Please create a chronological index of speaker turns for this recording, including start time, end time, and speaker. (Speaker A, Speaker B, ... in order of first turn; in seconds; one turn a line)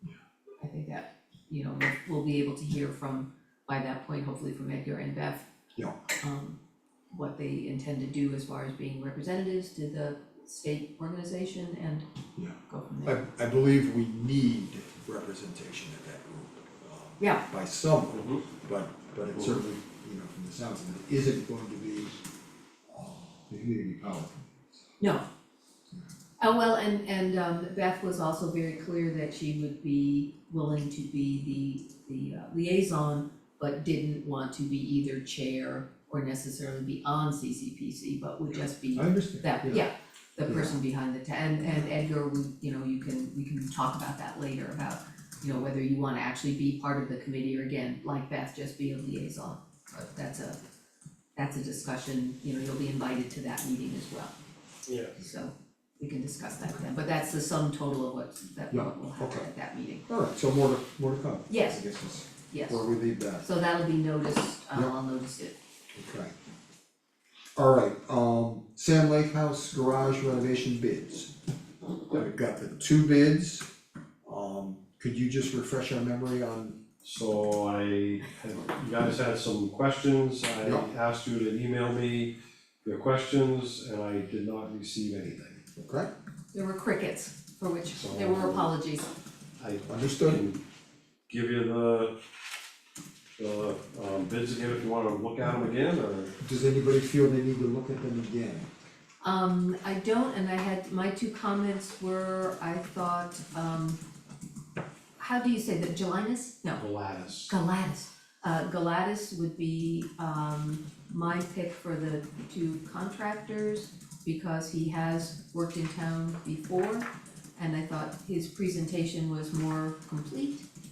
Speaker A: 0.6-5.5
Speaker A: 6.2-6.6
Speaker A: 7.1-12.0
Speaker B: 12.4-22.2
Speaker A: 12.7-13.2
Speaker C: 18.1-18.4
Speaker B: 22.9-24.8
Speaker A: 26.4-50.6
Speaker B: 39.0-39.9
Speaker B: 40.5-40.8
Speaker A: 51.4-54.3
Speaker C: 54.9-55.1
Speaker A: 55.2-60.0
Speaker B: 58.7-59.5
Speaker B: 60.1-63.5
Speaker A: 61.5-61.8
Speaker A: 62.5-62.8
Speaker A: 63.4-65.5
Speaker B: 65.9-66.3
Speaker B: 67.5-71.3
Speaker B: 72.1-73.7
Speaker B: 74.2-76.8
Speaker C: 77.0-82.3
Speaker C: 82.8-85.6
Speaker B: 85.8-86.1
Speaker A: 86.5-89.1
Speaker C: 87.9-88.7
Speaker C: 89.6-90.6
Speaker B: 89.9-90.4
Speaker C: 91.3-92.1
Speaker C: 93.4-96.3
Speaker B: 96.4-98.7
Speaker A: 99.2-104.0
Speaker A: 105.2-106.8
Speaker C: 106.8-107.5
Speaker A: 107.5-120.7